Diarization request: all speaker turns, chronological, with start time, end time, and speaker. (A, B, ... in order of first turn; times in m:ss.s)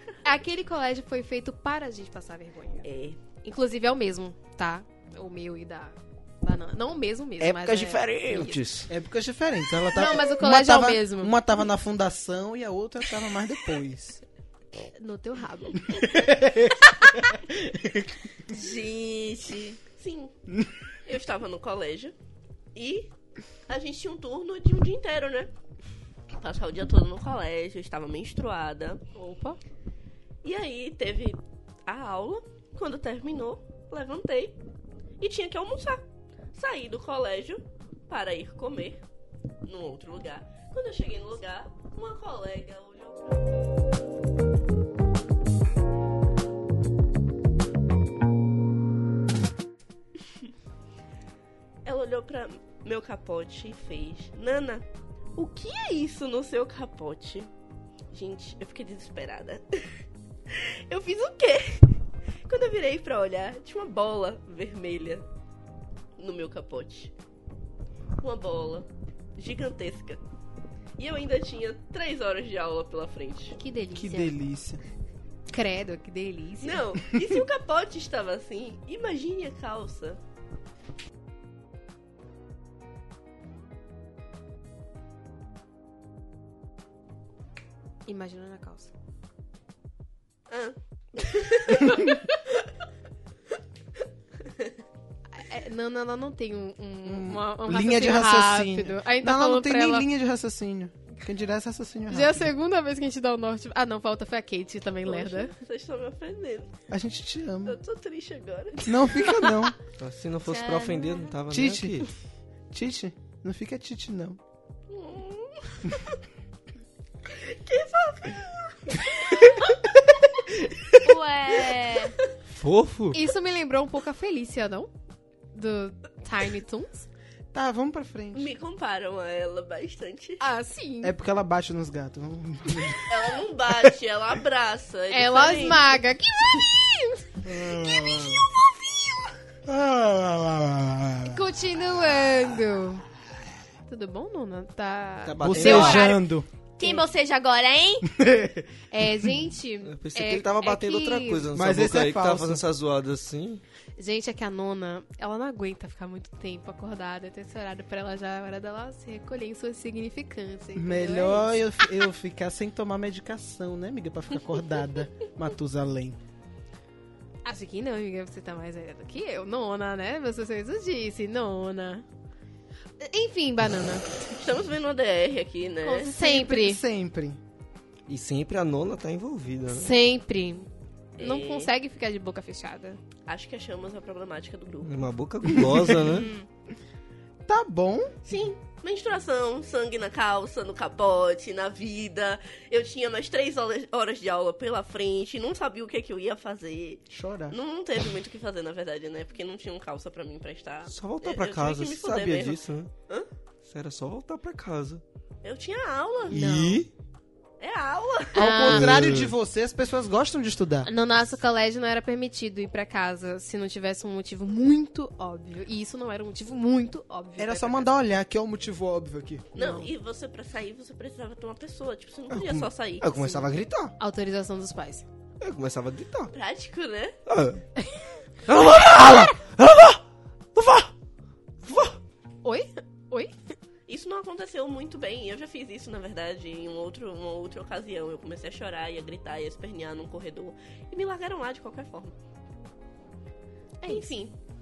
0:00.2-0:08.6 A
0:02.8-0:03.2 B
0:07.4-0:08.9 C
0:08.9-0:14.2 D
0:09.9-0:11.3 A
0:15.0-0:16.0 A
0:15.8-0:18.2 D
0:18.5-0:19.8 E
0:19.9-0:20.3 B
0:21.0-0:22.1 B
0:22.7-0:23.1 B
0:23.7-0:25.5 B
0:26.3-0:29.0 B
0:29.1-0:29.6 A
0:30.4-0:34.6 B
0:35.2-0:39.0 B
0:39.6-0:43.6 B
0:51.8-0:57.5 B
0:58.1-0:59.9 B
1:00.5-1:01.9 B
1:02.5-1:05.2 B
1:06.2-1:07.1 B
1:08.2-1:10.2 B
1:11.0-1:13.6 B
1:13.6-1:14.4 A
1:13.9-1:14.8 D
1:15.5-1:16.8 A
1:16.6-1:20.2 B
1:28.0-1:28.9 A
1:30.5-1:32.4 B
1:34.4-1:34.7 B
1:35.3-1:40.1 A
1:37.0-1:42.5 D
1:42.1-1:45.5 A
1:45.0-1:46.7 B
1:46.9-1:47.8 D
1:47.6-1:49.4 B
1:48.8-1:49.8 D
1:50.0-1:52.1 C
1:50.5-1:51.3 E
1:51.5-1:52.0 D
1:52.7-1:54.4 D
1:54.9-1:56.2 B
1:57.2-1:59.6 B
2:01.0-2:02.1 E
2:02.5-2:03.2 C
2:03.1-2:04.9 A
2:05.5-2:07.1 A
2:07.5-2:08.6 D
2:08.3-2:10.4 B
2:10.4-2:11.1 A
2:11.0-2:13.4 D
2:13.0-2:16.0 B
2:15.1-2:17.4 A
2:17.4-2:18.4 D
2:17.7-2:19.3 E
2:19.6-2:21.4 D
2:21.2-2:23.0 A
2:23.9-2:26.2 A
2:25.2-2:26.1 C
2:25.4-2:26.4 D
2:25.6-2:26.1 E
2:26.8-2:28.1 E
2:26.8-2:27.0 A
2:28.0-2:28.7 D
2:28.9-2:31.5 A
2:29.8-2:33.6 C
2:31.5-2:32.6 D
2:34.0-2:41.6 A
2:40.8-2:46.2 D
2:47.4-2:52.0 A
2:53.0-2:54.1 A
2:54.3-2:56.2 B
2:55.8-2:56.8 A
2:56.2-2:57.4 D
2:58.1-2:59.9 C
2:59.7-3:00.7 A
3:01.2-3:01.7 B
3:01.2-3:03.0 A
3:03.2-3:05.1 B
3:04.8-3:06.3 C
3:05.5-3:06.1 D
3:06.0-3:06.4 E
3:07.4-3:08.1 D
3:08.2-3:23.3 B
3:17.1-3:17.6 D
3:20.9-3:22.9 C
3:23.6-3:25.0 C
3:25.4-3:26.4 B
3:26.3-3:26.9 D
3:26.3-3:26.8 A
3:26.4-3:26.8 C
3:27.6-3:28.4 B
3:28.3-3:29.0 A
3:28.4-3:30.9 D
3:28.7-3:29.3 C
3:30.8-3:37.9 A
3:37.4-3:39.5 D
3:39.5-3:43.5 B
3:39.5-3:39.9 A
3:42.3-3:43.9 C
3:44.0-3:45.0 A
3:45.4-3:46.3 C
3:46.3-3:47.2 B
3:47.2-3:47.6 C
3:48.5-3:50.0 C
3:50.5-3:50.9 C
3:51.6-3:52.0 C
3:52.4-3:53.3 A
3:53.9-4:02.1 B
4:03.8-4:04.1 A
4:03.8-4:04.3 B